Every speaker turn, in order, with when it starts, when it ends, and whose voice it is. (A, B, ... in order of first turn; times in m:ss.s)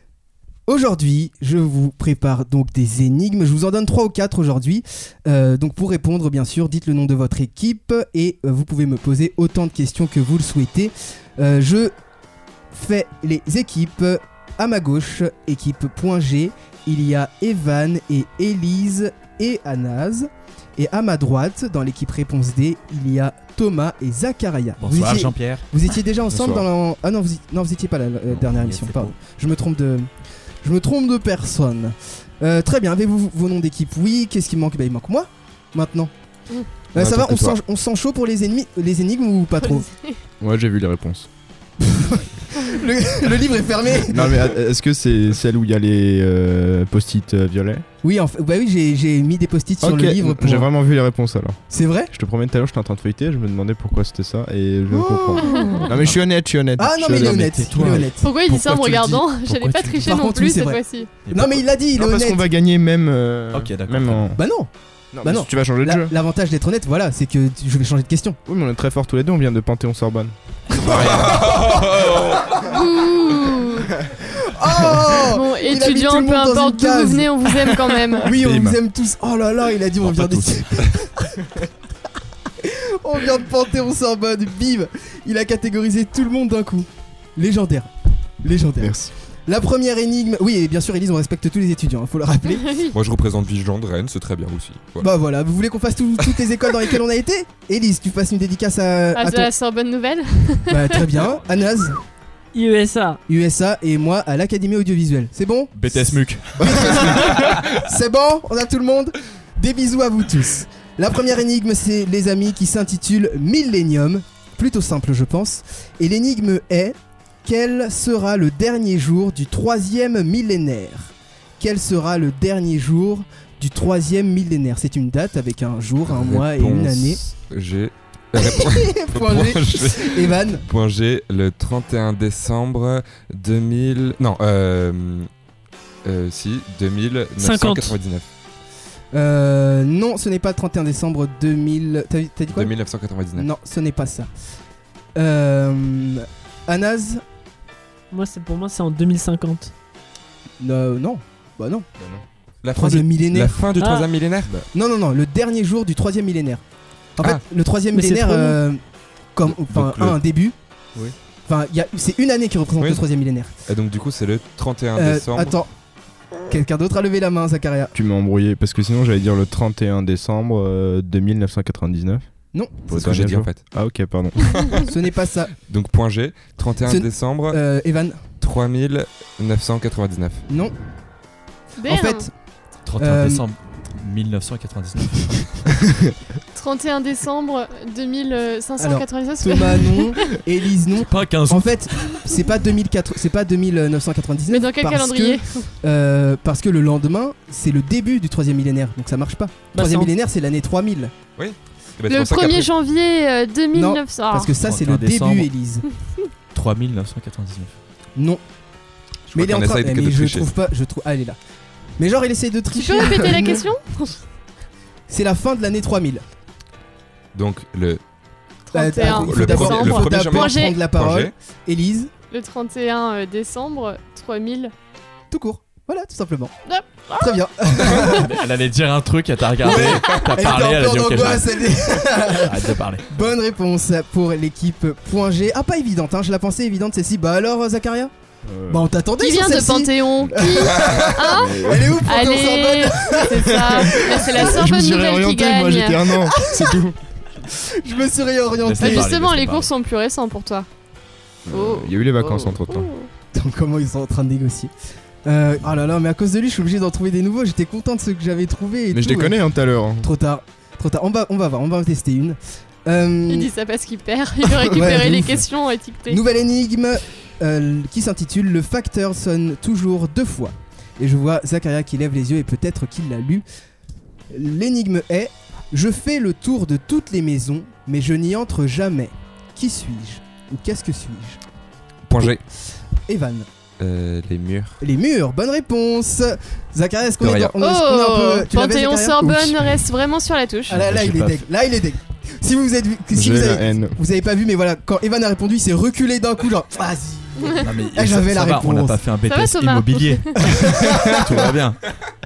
0:00.7-0:11.9 A
0:12.7-0:30.1 A
0:24.8-0:25.6 B
0:26.3-0:26.7 C
0:28.3-0:29.2 B
0:30.6-0:36.1 A
0:36.9-0:39.9 A
0:36.9-0:37.6 D
0:39.6-0:40.2 E
0:40.4-0:41.3 C
0:41.8-0:44.5 A
0:44.1-0:47.9 C
0:48.0-0:50.7 A
0:49.8-0:51.6 C
0:51.7-0:52.1 A
0:52.1-0:58.1 C
0:54.9-0:55.9 A
0:55.4-0:55.9 E
0:55.9-0:56.2 B
0:56.8-0:58.3 A
0:57.1-1:00.0 B
0:58.2-1:01.1 E
1:00.0-1:02.5 A
1:01.2-1:01.7 B
1:02.0-1:04.4 C
1:03.5-1:04.3 B
1:04.4-1:04.7 A
1:05.1-1:06.1 C
1:05.2-1:08.4 A
1:08.5-1:10.4 C
1:10.8-1:12.7 D
1:10.8-1:12.3 B
1:10.9-1:11.2 C
1:12.6-1:13.9 E
1:14.2-1:21.6 A
1:15.2-1:18.3 E
1:18.3-1:18.8 B
1:20.0-1:20.8 B
1:22.6-1:27.9 A
1:28.4-1:32.7 A
1:28.8-1:29.1 C
1:32.5-1:33.0 E
1:32.9-1:35.1 D
1:35.0-1:39.5 A
1:39.2-1:41.1 E
1:40.7-1:42.0 A
1:42.5-1:43.2 F
1:43.3-2:07.2 A
1:45.8-1:47.8 B
2:06.1-2:15.3 D
2:08.4-2:10.6 A
2:16.0-2:18.2 D
2:17.4-2:18.0 F
2:19.1-2:22.7 A
2:22.5-2:23.5 D
2:23.4-2:24.3 A
2:25.2-2:27.2 A
2:28.1-2:29.7 F
2:30.6-2:31.9 A
2:32.6-2:34.5 D
2:32.8-2:33.6 A
2:33.8-2:34.1 F
2:34.7-2:36.6 A
2:37.2-2:38.8 A
2:37.9-2:38.6 F
2:39.3-2:40.6 A
2:39.4-2:40.2 B
2:41.5-2:43.5 A
2:43.7-2:45.6 D
2:45.0-2:45.7 A
2:46.5-2:47.9 A
2:47.9-2:52.3 C
2:52.9-2:54.8 C
2:52.9-2:53.7 D
2:54.4-2:54.8 D
2:54.5-2:54.8 E
2:54.8-2:55.5 A
2:55.7-2:57.6 D
2:56.9-2:58.2 A
2:58.4-3:00.5 D
3:00.5-3:00.7 A
3:01.8-3:02.3 E
3:01.9-3:02.3 A
3:02.8-3:05.9 B
3:03.0-3:03.4 A
3:06.6-3:10.4 E
3:08.8-3:21.1 A
3:10.9-3:11.9 B
3:14.5-3:15.7 E
3:19.7-3:20.1 F
3:21.4-3:22.7 D
3:22.1-3:24.5 E
3:23.7-3:25.9 A
3:24.6-3:25.5 B
3:26.5-3:27.8 B
3:28.2-3:28.4 A
3:29.3-3:30.5 D
3:29.3-3:31.4 A
3:32.0-3:33.6 A
3:32.7-3:34.2 E
3:35.1-3:36.2 A
3:37.4-3:38.0 D
3:38.7-3:40.8 E
3:38.7-3:42.1 A
3:39.0-3:41.3 D
3:42.3-3:44.7 E
3:45.3-3:46.6 A
3:46.7-3:47.4 E
3:47.2-3:48.3 A
3:47.8-3:53.1 B
3:49.6-3:58.1 A
3:58.4-3:58.8 C
3:58.7-4:04.6 A
3:59.2-4:06.7 E
4:00.8-4:01.1 D
4:01.3-4:02.2 C
4:03.4-4:07.0 C
4:07.4-4:09.1 A
4:08.6-4:09.7 B
4:08.8-4:10.7 E
4:11.5-4:12.9 C
4:11.5-4:13.1 E
4:13.3-4:14.7 A
4:15.2-4:19.4 A
4:18.9-4:20.1 C
4:20.0-4:23.5 A
4:23.3-4:26.2 E
4:24.7-4:25.5 A
4:26.1-4:33.4 A
4:34.3-4:41.4 A
4:42.1-4:42.4 D
4:43.1-4:43.5 A
4:43.8-4:44.8 D
4:44.8-4:49.7 A
4:47.2-4:47.6 D
4:47.6-4:50.9 E
4:50.7-4:59.0 A
4:50.7-4:51.5 B
4:53.2-4:54.0 C
4:57.4-4:57.7 E
4:57.6-5:01.8 B
4:59.3-5:00.4 E
5:00.4-5:01.5 A